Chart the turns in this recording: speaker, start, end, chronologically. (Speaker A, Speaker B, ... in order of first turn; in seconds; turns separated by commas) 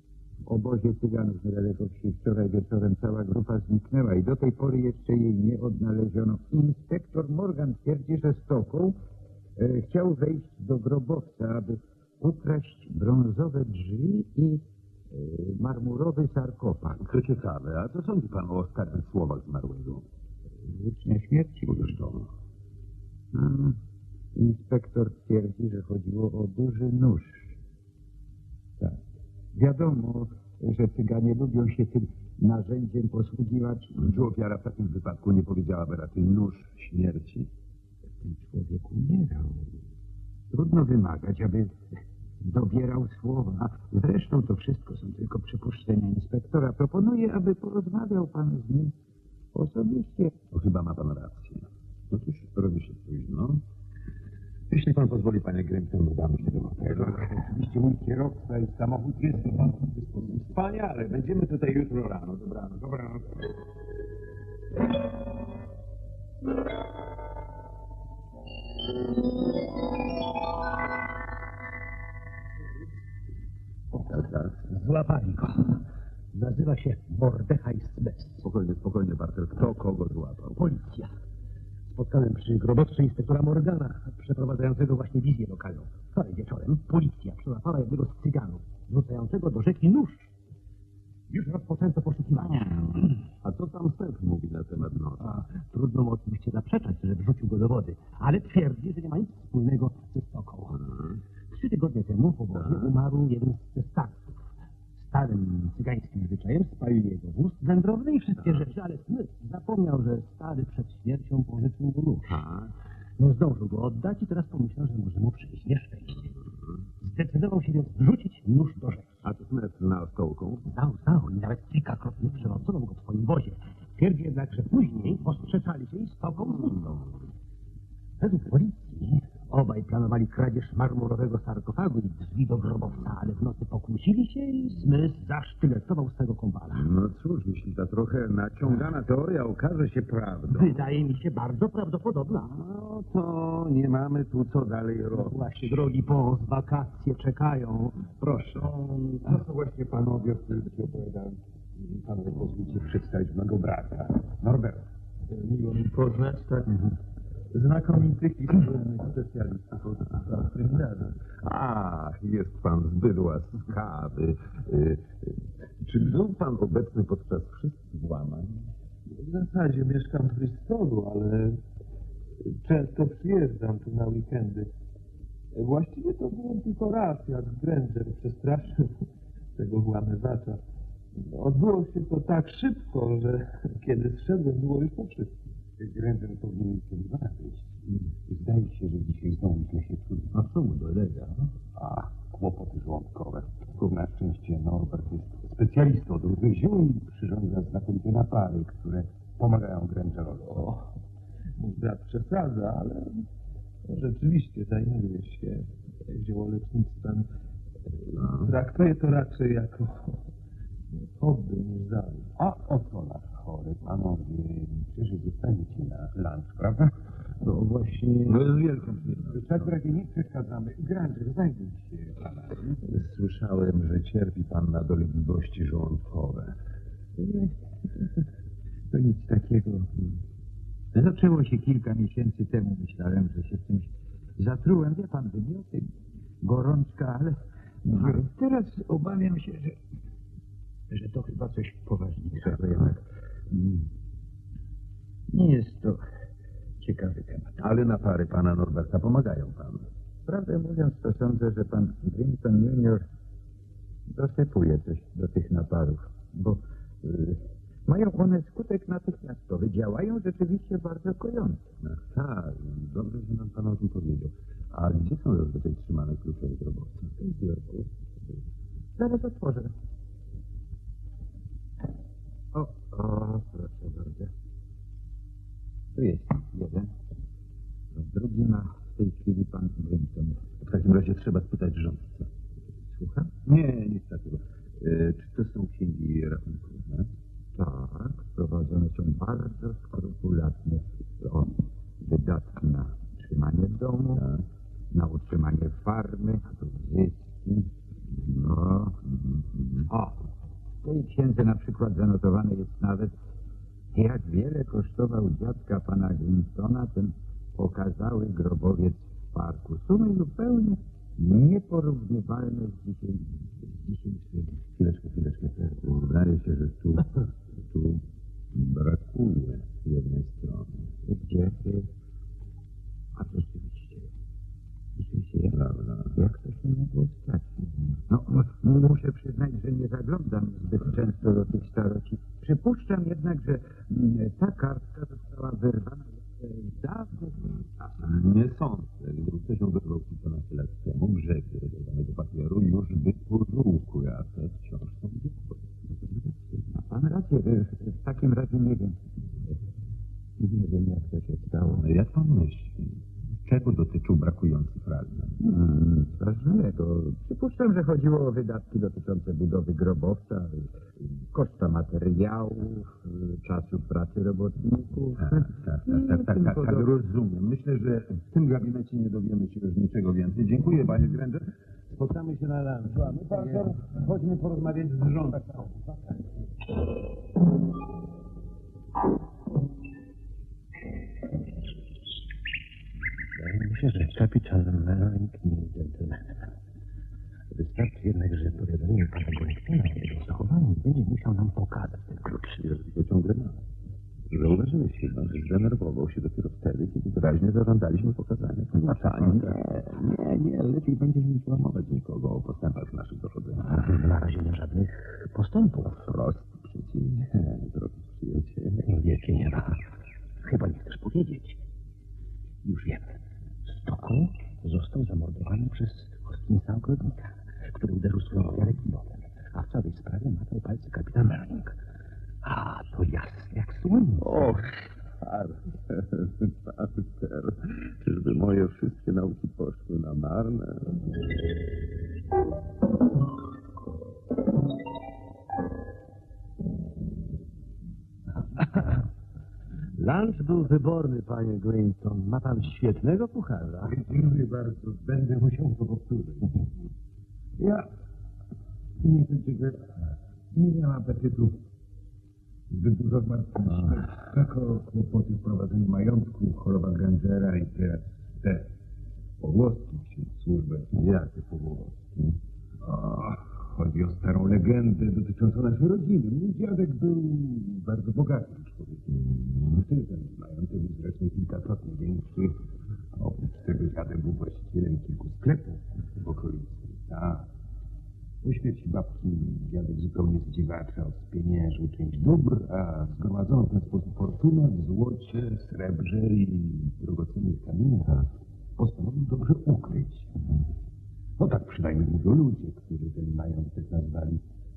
Speaker A: 0.5-9.0, Speaker A: 9.6-17.0, Speaker B: 17.0-20.1, Speaker A: 20.6-22.0, Speaker B: 21.7-22.3, Speaker A: 23.3-23.8, Speaker A: 24.3-27.6, Speaker A: 29.5-34.1, Speaker B: 34.0-37.5, Speaker A: 38.2-39.8, Speaker A: 40.5-41.8, Speaker A: 42.4-49.0, Speaker A: 49.5-50.4, Speaker B: 50.5-53.6, Speaker B: 54.7-57.3, Speaker C: 56.8-60.5, Speaker B: 60.3-63.2, Speaker B: 74.0-74.6, Speaker D: 74.6-78.5, Speaker B: 78.4-80.7, Speaker D: 80.6-81.1, Speaker D: 81.9-90.3, Speaker D: 91.3-93.0, Speaker B: 93.0-95.5, Speaker D: 95.2-100.8, Speaker B: 100.9-101.2, Speaker D: 101.5-104.4, Speaker B: 102.6-102.9, Speaker D: 105.0-112.4, Speaker B: 112.3-112.7, Speaker D: 113.2-116.3, Speaker D: 117.0-119.2, Speaker B: 119.2-120.7, Speaker D: 120.7-127.0, Speaker D: 128.2-136.9, Speaker B: 136.7-140.9, Speaker D: 140.5-142.5, Speaker B: 142.5-145.7, Speaker D: 145.1-148.5, Speaker C: 148.6-155.8, Speaker E: 155.6-156.8, Speaker C: 157.5-161.1, Speaker B: 161.4-168.7, Speaker E: 169.1-171.6, Speaker E: 172.4-174.7, Speaker E: 175.5-180.6, Speaker E: 181.2-185.3, Speaker C: 185.8-190.3, Speaker D: 190.4-191.3, Speaker C: 191.8-200.7, Speaker E: 201.6-203.2, Speaker E: 203.8-207.3, Speaker E: 208.0-210.2, Speaker E: 211.2-212.3, Speaker C: 212.4-216.9, Speaker A: 217.5-218.0, Speaker B: 218.2-219.7, Speaker C: 219.3-222.8, Speaker B: 222.8-226.6, Speaker A: 227.2-228.2, Speaker A: 228.9-230.2, Speaker A: 230.9-235.9, Speaker A: 236.4-239.8, Speaker A: 240.9-243.9, Speaker A: 245.3-246.0, Speaker A: 246.8-247.6, Speaker B: 247.6-249.9, Speaker A: 250.3-253.1, Speaker A: 254.1-261.6, Speaker B: 261.8-267.2, Speaker A: 267.2-267.9, Speaker A: 269.0-269.7, Speaker A: 272.5-274.3, Speaker A: 275.9-276.9, Speaker A: 277.9-280.4, Speaker B: 280.6-282.3, Speaker A: 282.9-283.3, Speaker B: 283.4-287.1, Speaker A: 287.6-294.2, Speaker B: 294.1-294.4, Speaker A: 294.9-297.7, Speaker B: 298.2-298.5, Speaker A: 298.4-299.0, Speaker B: 299.0-299.9, Speaker A: 299.9-300.2, Speaker A: 300.8-303.2, Speaker A: 303.9-314.6, Speaker B: 314.8-320.9, Speaker A: 321.1-321.9, Speaker A: 323.1-324.1, Speaker A: 325.0-325.6, Speaker B: 325.5-326.1, Speaker A: 326.1-338.2, Speaker B: 338.0-345.6, Speaker A: 346.7-349.0, Speaker A: 350.4-351.8, Speaker B: 351.7-355.4, Speaker A: 355.4-366.9, Speaker B: 365.2-375.4, Speaker C: 372.9-374.0, Speaker C: 375.3-376.2, Speaker D: 383.4-386.4, Speaker D: 387.5-392.6, Speaker B: 392.6-393.6, Speaker B: 394.3-403.7, Speaker D: 403.6-406.0, Speaker B: 405.8-408.9, Speaker D: 408.8-409.8, Speaker D: 410.4-411.6, Speaker D: 412.6-421.8, Speaker D: 422.4-424.6, Speaker B: 424.2-431.1, Speaker D: 438.6-439.0, Speaker D: 440.0-443.9, Speaker C: 443.8-446.7, Speaker C: 447.6-447.9, Speaker C: 449.0-449.9, Speaker C: 450.5-451.6, Speaker C: 452.7-458.7, Speaker C: 459.4-461.0, Speaker B: 460.9-462.4, Speaker C: 462.8-472.6, Speaker C: 473.1-477.5, Speaker C: 478.4-490.4, Speaker C: 491.4-494.4